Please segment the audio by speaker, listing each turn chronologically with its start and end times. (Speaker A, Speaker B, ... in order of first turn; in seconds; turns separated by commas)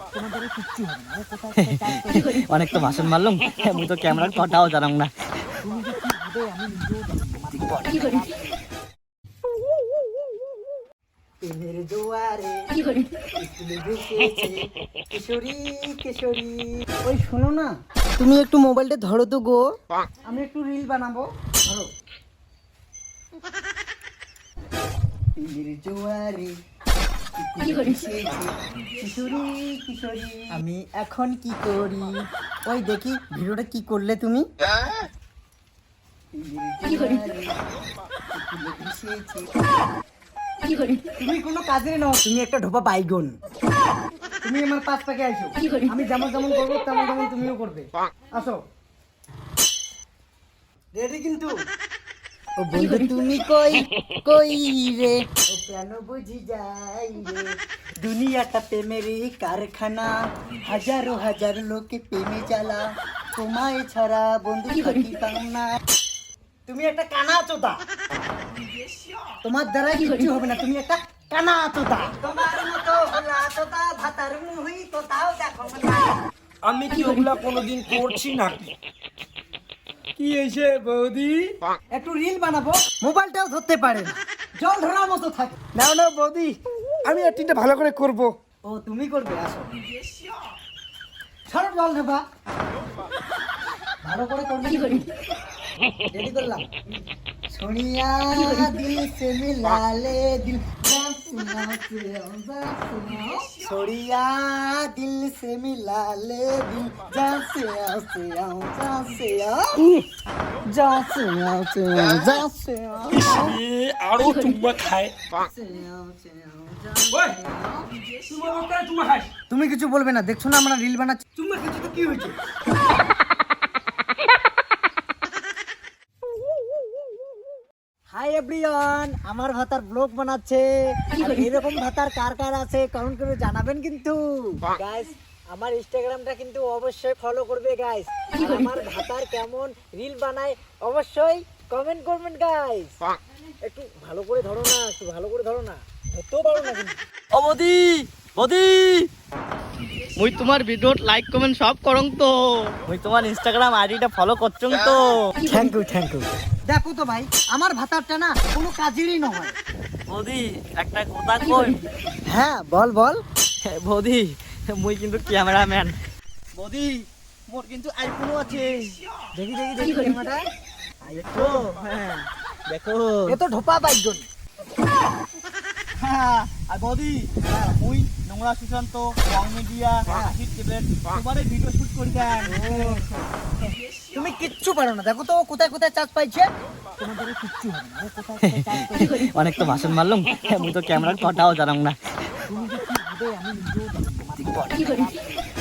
Speaker A: 0.1-2.2, Speaker B: 1.6-5.1, Speaker A: 5.6-7.6, Speaker B: 7.5-8.2, Speaker A: 11.4-12.7, Speaker A: 13.4-19.6, Speaker A: 20.3-21.9, Speaker A: 25.4-26.5, Speaker A: 27.4-34.5, Speaker A: 36.3-37.5, Speaker A: 38.3-39.5, Speaker A: 41.2-43.3, Speaker A: 44.4-48.6, Speaker A: 51.0-51.5, Speaker A: 52.6-57.5, Speaker A: 58.0-60.1, Speaker A: 60.6-65.8, Speaker A: 66.7-67.8, Speaker A: 69.4-76.2, Speaker C: 76.6-78.7, Speaker A: 80.2-86.6, Speaker C: 87.1-88.3, Speaker A: 88.7-89.8, Speaker A: 91.5-92.2, Speaker A: 94.0-95.1, Speaker A: 96.1-96.7, Speaker A: 97.5-109.8, Speaker A: 110.7-113.6, Speaker C: 113.1-115.1, Speaker A: 115.4-117.9, Speaker C: 118.2-119.3, Speaker A: 119.5-122.4, Speaker A: 128.1-142.9, Speaker A: 143.6-147.0, Speaker B: 147.3-149.1, Speaker B: 150.2-155.2, Speaker A: 155.4-159.6, Speaker B: 160.1-161.8, Speaker A: 162.2-163.2, Speaker B: 163.6-165.9, Speaker B: 166.6-167.0, Speaker B: 167.5-169.0, Speaker A: 169.3-170.4, Speaker A: 171.0-171.7, Speaker B: 171.1-173.4, Speaker A: 173.3-174.2, Speaker B: 176.0-183.1, Speaker A: 177.4-177.8, Speaker A: 180.1-180.3, Speaker A: 182.4-189.1, Speaker B: 188.4-191.9, Speaker A: 192.5-195.2